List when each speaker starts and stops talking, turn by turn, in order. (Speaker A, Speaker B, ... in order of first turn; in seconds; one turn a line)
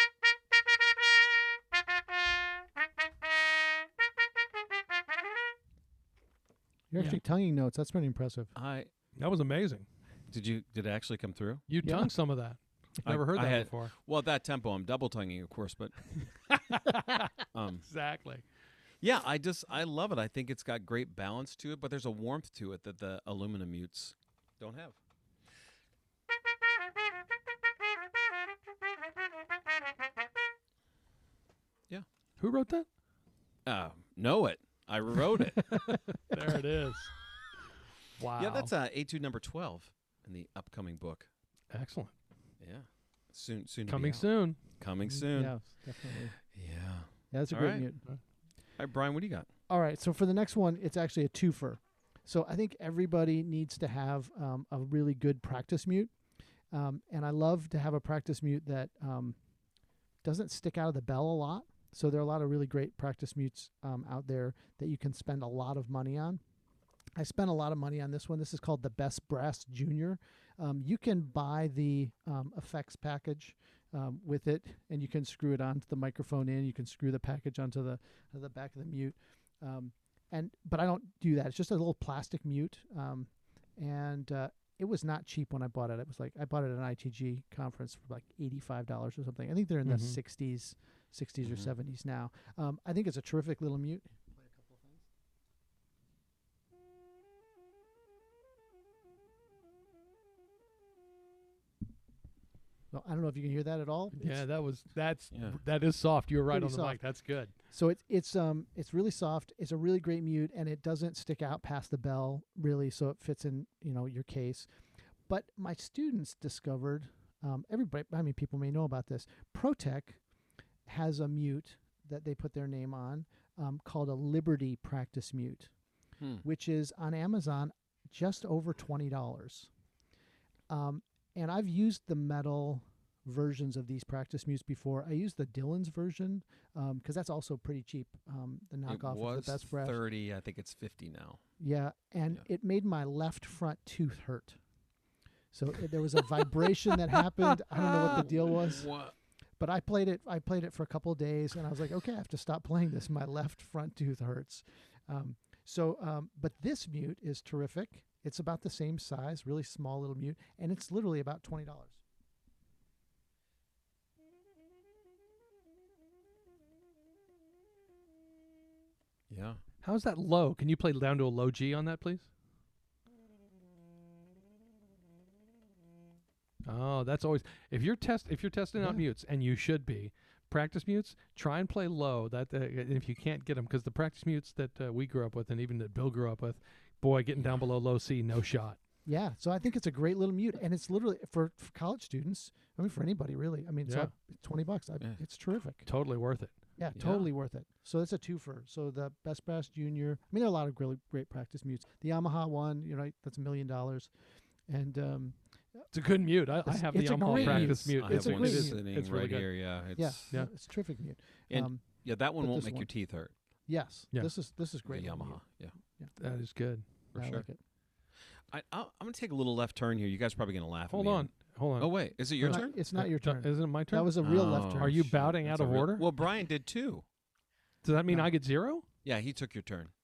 Speaker A: 6.9-8.5
Speaker B: 8.5-8.9
Speaker C: 9.2-9.8
Speaker B: 10.3-11.6
Speaker C: 11.7-13.9
Speaker A: 11.8-12.1
Speaker B: 13.0-16.0
Speaker C: 16.5-17.3
Speaker B: 17.5-17.9
Speaker C: 17.8-18.4
Speaker B: 19.0-25.0
Speaker C: 32.4-32.9
Speaker B: 33.6-35.7
Speaker A: 35.5-36.3
Speaker C: 35.9-37.1
Speaker C: 38.1-38.7
Speaker B: 38.4-41.3
Speaker C: 41.7-42.1
Speaker B: 42.6-45.6
Speaker C: 43.9-44.6
Speaker A: 45.1-46.4
Speaker B: 46.1-47.9
Speaker A: 47.3-48.0
Speaker B: 48.8-49.5
Speaker A: 49.7-56.1
Speaker A: 56.7-59.4
Speaker A: 60.2-66.4
Speaker A: 67.2-95.0
Speaker C: 89.8-90.2
Speaker B: 91.4-91.7
Speaker A: 102.9-104.4
Speaker C: 104.2-107.5
Speaker B: 105.3-105.6
Speaker A: 106.5-107.0
Speaker A: 107.7-114.7
Speaker A: 115.3-120.2
Speaker A: 120.8-125.7
Speaker A: 126.4-129.7
Speaker A: 130.7-140.0
Speaker B: 138.9-141.4
Speaker A: 141.6-144.6
Speaker A: 145.5-148.9
Speaker B: 147.8-149.1
Speaker A: 149.6-162.0
Speaker B: 169.3-169.6
Speaker C: 169.8-172.3
Speaker C: 176.6-188.8
Speaker A: 178.8-179.0
Speaker A: 189.1-195.8
Speaker C: 195.8-196.5
Speaker A: 196.8-204.1
Speaker B: 196.9-197.3
Speaker A: 204.7-205.8
Speaker C: 205.9-209.5
Speaker A: 206.7-208.8
Speaker B: 207.3-210.3
Speaker A: 210.0-211.8
Speaker B: 211.5-213.3
Speaker A: 212.4-212.9
Speaker A: 213.7-215.4
Speaker B: 214.9-215.7
Speaker C: 216.2-216.8
Speaker B: 217.1-217.4
Speaker A: 217.1-217.6
Speaker B: 218.5-222.8
Speaker C: 220.9-226.1
Speaker A: 222.4-225.1
Speaker B: 224.2-227.0
Speaker C: 227.8-228.8
Speaker B: 229.0-229.9